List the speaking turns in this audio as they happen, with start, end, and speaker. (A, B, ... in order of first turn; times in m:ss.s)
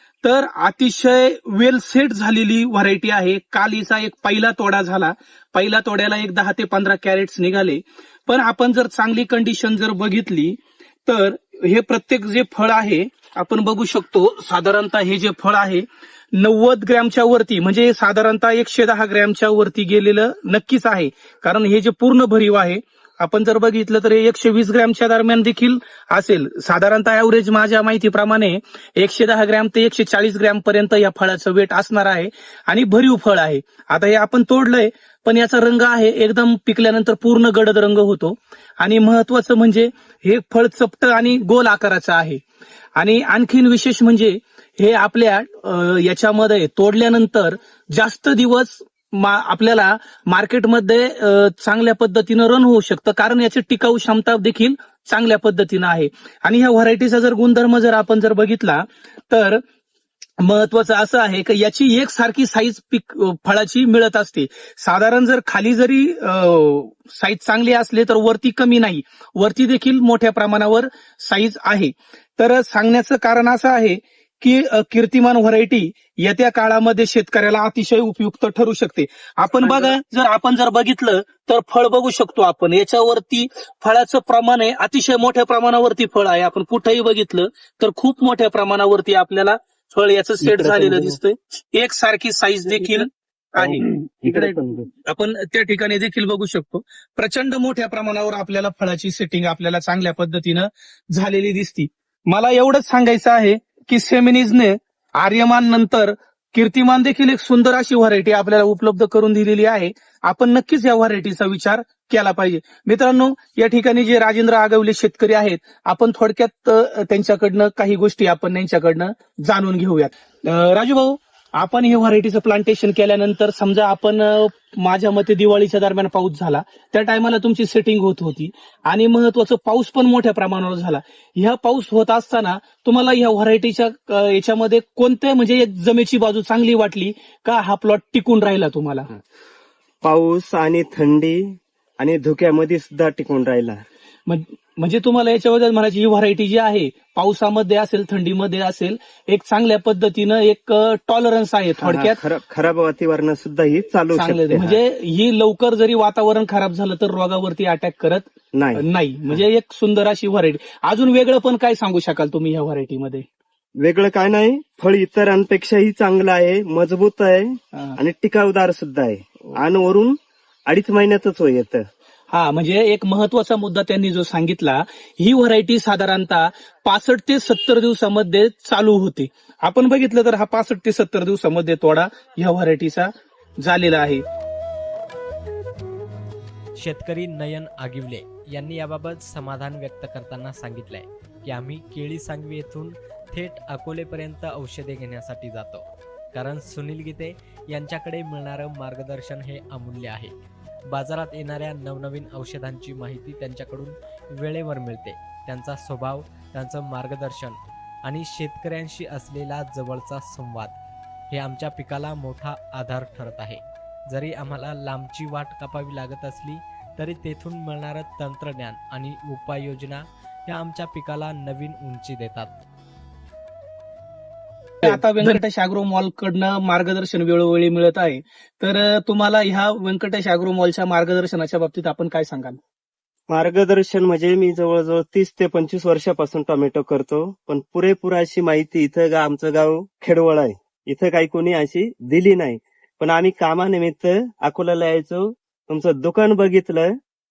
0:00.2-0:42.4 A
0:43.0-0:59.6 A
1:00.4-2:19.1 A
1:30.4-1:31.2 B
1:33.6-1:34.9 B
2:20.0-2:23.8 B
2:24.3-2:32.2 A
2:31.8-2:34.8 B
2:34.1-2:43.2 A
2:38.5-2:39.4 B
2:43.8-2:51.9 B
2:52.3-3:04.2 A
3:06.8-3:20.4 C
3:20.9-3:30.8 C
3:31.3-3:42.6 C
3:44.8-3:52.6 A
3:53.3-4:07.0 B